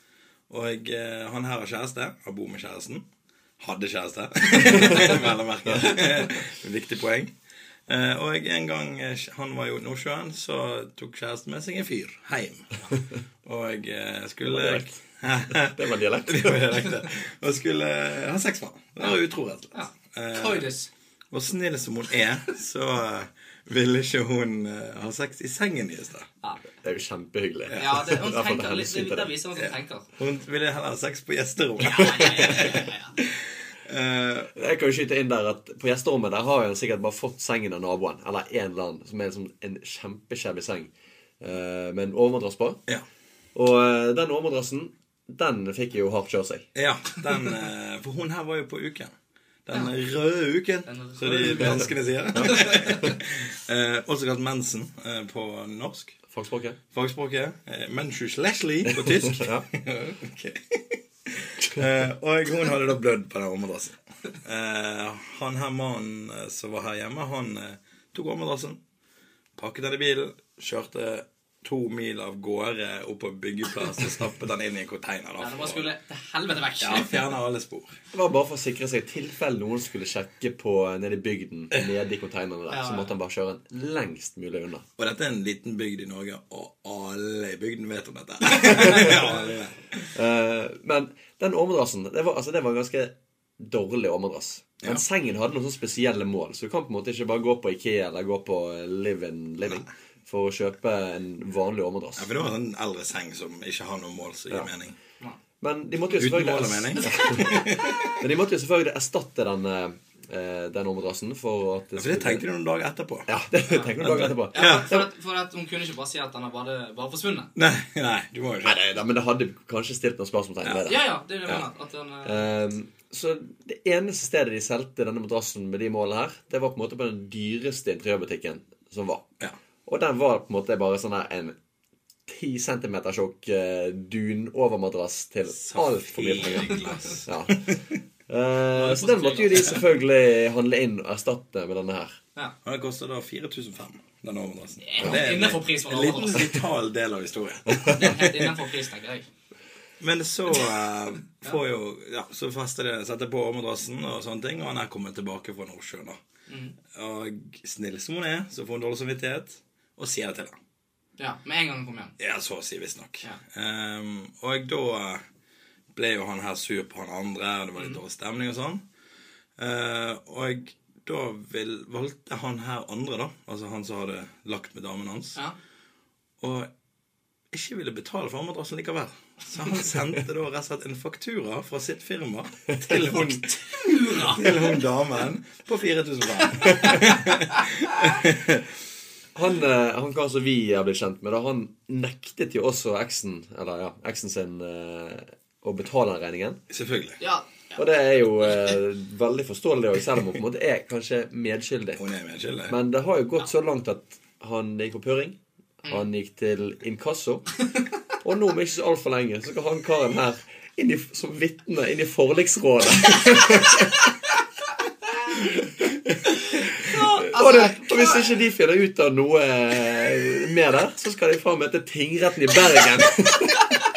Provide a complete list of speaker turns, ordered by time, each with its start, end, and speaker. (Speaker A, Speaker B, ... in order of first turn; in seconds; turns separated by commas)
Speaker A: 0.5-3.0, Speaker A: 3.6-7.3, Speaker A: 7.9-12.8, Speaker A: 13.4-20.7, Speaker B: 14.4-15.0, Speaker B: 15.5-16.7, Speaker C: 19.7-20.9, Speaker A: 21.3-26.3, Speaker B: 26.8-29.3, Speaker A: 27.7-28.0, Speaker C: 27.8-30.1, Speaker A: 29.6-32.9, Speaker C: 31.8-33.1, Speaker A: 33.9-34.5, Speaker B: 34.5-42.8, Speaker B: 43.5-46.7, Speaker A: 46.8-49.1, Speaker A: 49.7-56.2, Speaker C: 50.9-53.1, Speaker B: 56.3-56.8, Speaker A: 56.9-68.8, Speaker B: 59.1-59.6, Speaker A: 69.6-75.9, Speaker C: 75.4-77.3, Speaker A: 76.8-78.0, Speaker B: 78.1-84.9, Speaker C: 82.7-83.1, Speaker A: 85.0-90.0, Speaker B: 88.7-89.2, Speaker B: 90.1-102.3, Speaker A: 102.2-105.0, Speaker B: 105.6-112.4, Speaker A: 106.2-108.2, Speaker C: 107.0-107.6, Speaker A: 112.0-113.3, Speaker B: 113.3-115.1, Speaker C: 113.7-113.9, Speaker A: 114.0-114.9, Speaker C: 114.5-117.5, Speaker A: 117.6-118.8, Speaker B: 118.6-121.6, Speaker C: 120.9-122.5, Speaker B: 122.2-129.3, Speaker B: 129.9-131.6, Speaker B: 132.3-137.6, Speaker A: 135.6-137.8, Speaker B: 138.3-142.2, Speaker C: 138.8-139.8, Speaker A: 142.7-148.3, Speaker C: 144.8-146.6, Speaker C: 147.9-149.3, Speaker A: 150.0-156.2, Speaker C: 156.5-156.8, Speaker A: 156.9-160.6, Speaker C: 161.2-162.1, Speaker A: 162.2-165.2, Speaker A: 165.9-168.8, Speaker C: 167.8-168.0, Speaker A: 169.6-175.4, Speaker A: 176.4-176.7, Speaker A: 177.5-188.7, Speaker C: 183.1-184.8, Speaker C: 186.6-187.2, Speaker B: 189.3-196.6, Speaker A: 196.7-197.2, Speaker C: 197.2-197.8, Speaker B: 197.8-202.0, Speaker A: 202.0-202.8, Speaker B: 202.7-207.5, Speaker B: 208.2-214.1, Speaker C: 216.6-218.3, Speaker B: 216.9-223.8